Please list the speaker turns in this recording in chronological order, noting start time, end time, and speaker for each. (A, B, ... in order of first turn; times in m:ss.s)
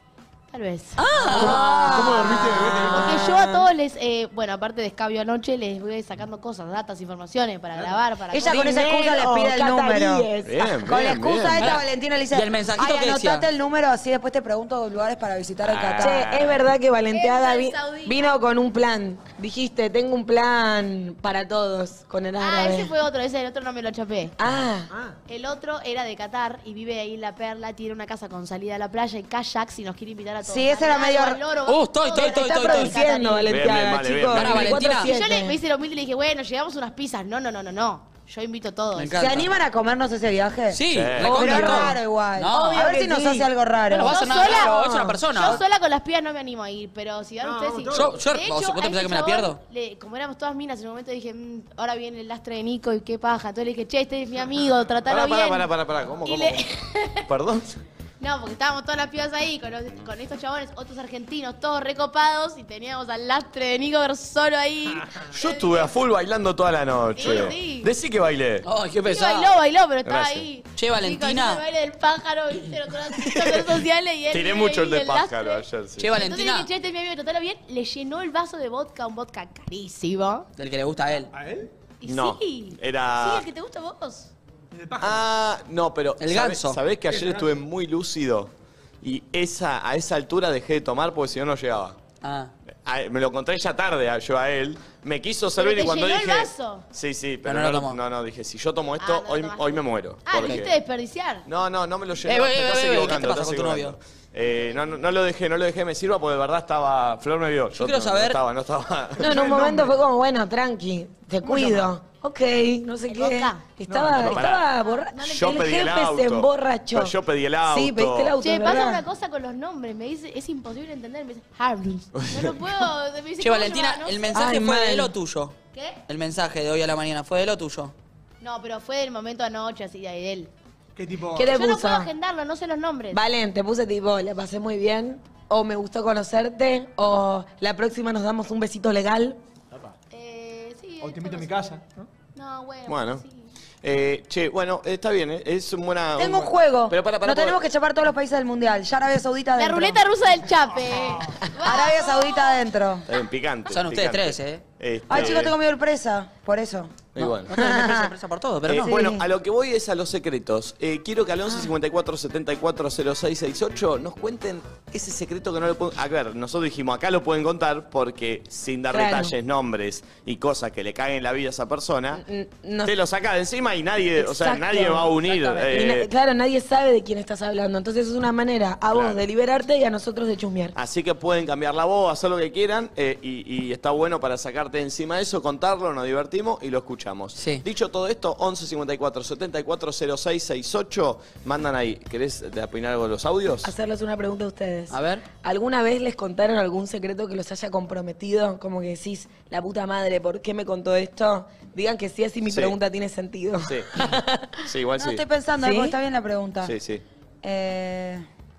0:00.5-0:08.9 A
0:01.0-0:02.2 B
0:01.4-0:03.3 C
0:01.4-0:02.0 D
0:01.6-0:02.5 E
0:07.7-0:08.0 C
0:08.3-0:10.3 E
0:08.4-0:10.6 D
0:10.5-0:11.7 F
0:10.8-0:16.4 E
0:11.6-0:13.4 B
0:15.6-0:16.6 F
0:16.0-0:22.9 D
0:17.1-0:18.4 A
0:22.4-0:24.3 A
0:24.4-0:24.9 D
0:25.3-0:33.6 A
0:30.4-0:31.4 E
0:31.7-0:33.0 B
0:32.2-0:35.6 D
0:33.5-0:34.8 F
0:34.3-0:35.1 B
0:35.0-0:39.3 A
0:38.9-0:39.5 B
0:39.2-0:44.6 E
0:40.7-0:42.9 B
0:40.9-0:41.4 F
0:41.3-0:42.0 D
0:42.5-0:43.5 D
0:43.9-0:45.6 B
0:44.0-0:44.8 A
0:44.5-0:45.2 D
0:45.3-0:55.7 A
0:47.4-0:48.1 C
0:47.9-0:49.6 B
0:55.1-0:56.6 F
0:56.2-0:57.2 A
0:57.3-0:57.7 F
0:58.2-1:05.9 A
1:05.3-1:08.6 F
1:07.2-1:07.9 A
1:08.6-1:09.5 B
1:09.0-1:20.5 A
1:10.0-1:10.5 F
1:10.7-1:11.6 B
1:14.3-1:16.1 F
1:16.0-1:16.7 B
1:20.6-1:21.3 B
1:21.3-1:21.7 C
1:22.0-1:24.3 A
1:22.0-1:23.4 F
1:24.7-1:25.3 C
1:25.0-1:28.5 F
1:26.2-1:26.8 B
1:27.1-1:27.6 C
1:29.0-1:32.0 F
1:32.2-1:32.5 B
1:32.8-1:40.7 F
1:35.6-1:36.8 A
1:37.4-1:38.0 B
1:39.0-1:41.4 A
1:40.3-1:40.7 B
1:41.4-1:49.3 F
1:42.2-1:44.0 B
1:47.8-1:48.4 B
1:49.2-1:57.1 D
1:49.2-1:49.9 C
1:51.4-1:51.9 C
1:53.1-1:53.6 A
1:53.8-1:54.5 C
1:54.2-1:54.6 F
1:54.8-1:55.5 A
1:55.2-1:58.3 F
1:57.6-1:59.0 D
1:58.4-2:04.3 A
2:02.2-2:02.6 F
2:03.4-2:05.5 B
2:04.3-2:05.1 D
2:05.7-2:06.0 A
2:06.1-2:07.9 B
2:08.4-2:10.5 A
2:11.0-2:11.6 C
2:11.4-2:12.1 D
2:11.4-2:13.2 A
2:13.1-2:19.4 D
2:20.1-2:21.8 A
2:21.0-2:22.1 C
2:22.3-2:23.5 A
2:22.9-2:23.2 F
2:23.8-2:27.7 F
2:26.2-2:30.0 E
2:29.6-2:32.6 A
2:31.6-2:33.1 E
2:33.1-2:35.5 F
2:33.7-2:34.6 B
2:35.1-2:37.0 E
2:37.1-2:37.5 F
2:37.2-2:38.9 B
2:37.5-2:38.1 E
2:38.7-2:52.2 F
2:38.8-2:39.3 E
2:48.9-2:49.3 D
2:52.2-2:52.9 D
2:52.8-2:56.1 F
2:54.2-3:00.7 D
2:58.9-2:59.2 F
3:00.7-3:13.7 F
3:07.4-3:07.6 B
3:13.6-3:24.5 D
3:14.9-3:15.2 B
3:22.5-3:22.8 F
3:23.6-3:24.1 F
3:24.6-3:25.2 F
3:25.0-3:26.8 E
3:25.6-3:26.0 D
3:26.6-3:27.0 F
3:27.4-3:28.2 E